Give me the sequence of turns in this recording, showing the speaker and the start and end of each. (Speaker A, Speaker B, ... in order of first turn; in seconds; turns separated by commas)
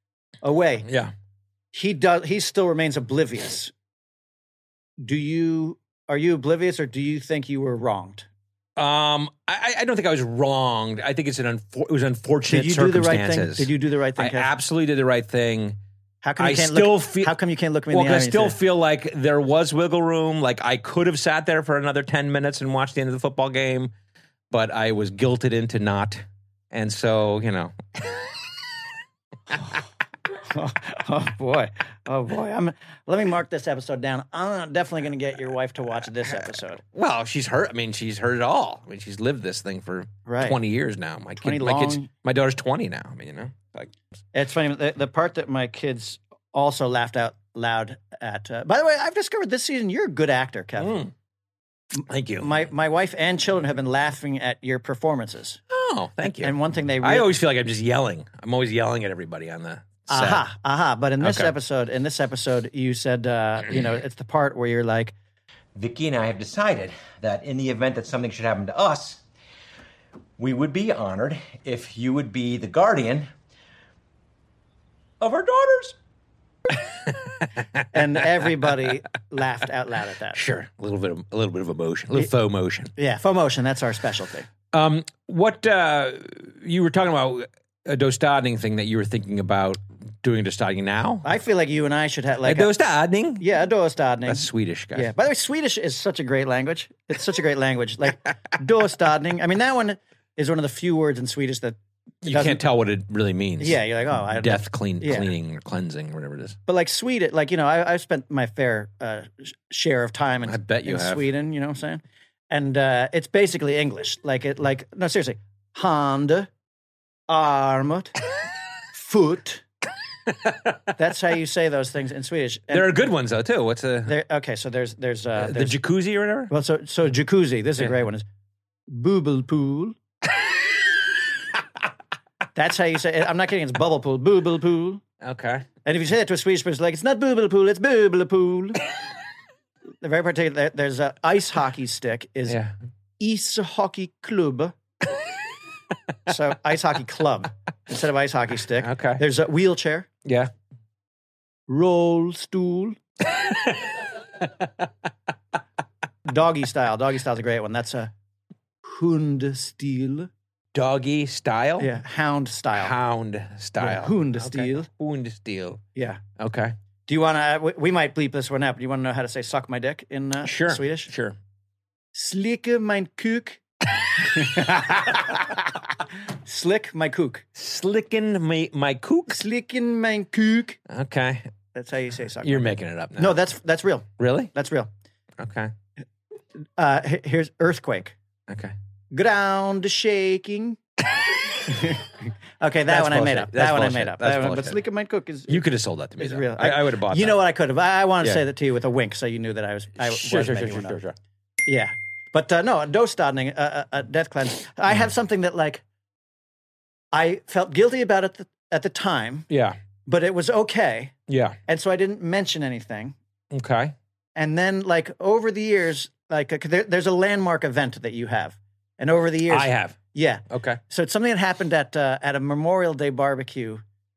Speaker A: 0.4-0.9, Speaker B: 0.8-1.1, Speaker A: 1.7-3.7, Speaker A: 5.0-8.3, Speaker B: 8.8-15.8, Speaker A: 12.5-14.5, Speaker A: 16.2-18.6, Speaker B: 16.4-17.3, Speaker B: 17.9-23.9, Speaker B: 24.5-28.3, Speaker A: 30.4-36.8, Speaker B: 36.8-43.9, Speaker A: 40.3-40.6, Speaker A: 41.4-42.1, Speaker A: 44.3-51.0, Speaker B: 50.8-51.1, Speaker B: 52.0-52.7, Speaker A: 52.4-55.6, Speaker B: 55.7-60.5, Speaker A: 56.4-57.3, Speaker A: 60.1-65.1, Speaker B: 61.2-61.5, Speaker C: 65.8-69.2, Speaker C: 70.4-73.3, Speaker C: 75.2-76.0, Speaker B: 76.8-77.8, Speaker A: 77.9-80.4, Speaker B: 80.3-82.9, Speaker A: 83.0-84.5, Speaker B: 84.7-91.3, Speaker A: 91.2-92.7, Speaker B: 92.4-93.5, Speaker A: 93.4-102.6, Speaker B: 94.3-95.1, Speaker B: 102.2-106.6, Speaker A: 103.6-105.3, Speaker A: 106.7-116.5, Speaker B: 110.5-111.3, Speaker A: 117.3-118.1, Speaker A: 118.9-119.6, Speaker B: 120.4-120.8, Speaker A: 121.0-123.1, Speaker B: 122.7-124.2, Speaker A: 124.1-125.8, Speaker B: 125.4-126.5, Speaker A: 126.5-128.2, Speaker A: 128.9-129.9, Speaker A: 132.6-135.0, Speaker B: 135.2-135.7, Speaker A: 135.8-138.8, Speaker A: 140.0-142.6, Speaker B: 142.5-142.8, Speaker A: 143.2-144.8, Speaker A: 146.3-150.1, Speaker B: 148.8-149.2, Speaker B: 150.2-150.5, Speaker A: 151.7-153.0, Speaker B: 153.3-154.9, Speaker A: 156.3-158.1, Speaker A: 158.8-160.3, Speaker B: 160.7-161.9, Speaker A: 161.8-162.9, Speaker B: 162.8-165.8, Speaker A: 163.8-164.9, Speaker A: 165.9-166.2, Speaker B: 166.4-166.8, Speaker A: 167.1-171.1, Speaker B: 170.4-171.4, Speaker A: 172.1-173.6, Speaker A: 174.2-175.5, Speaker A: 176.4-177.4, Speaker B: 177.6-179.4, Speaker A: 179.3-180.8, Speaker B: 180.9-181.5, Speaker A: 181.7-184.9, Speaker B: 182.4-183.4, Speaker B: 184.2-184.5, Speaker B: 185.4-185.7, Speaker A: 186.8-188.1, Speaker B: 188.5-188.8, Speaker A: 189.1-190.8, Speaker A: 191.6-195.6, Speaker B: 192.9-194.8, Speaker B: 195.5-197.4, Speaker A: 196.2-201.0, Speaker B: 200.0-201.1, Speaker A: 201.7-205.8, Speaker A: 207.1-209.5, Speaker B: 209.5-209.8, Speaker A: 210.1-211.1, Speaker B: 211.3-211.6, Speaker A: 211.7-213.1, Speaker B: 213.5-213.9, Speaker A: 214.4-223.8, Speaker B: 219.5-220.0, Speaker B: 220.5-220.8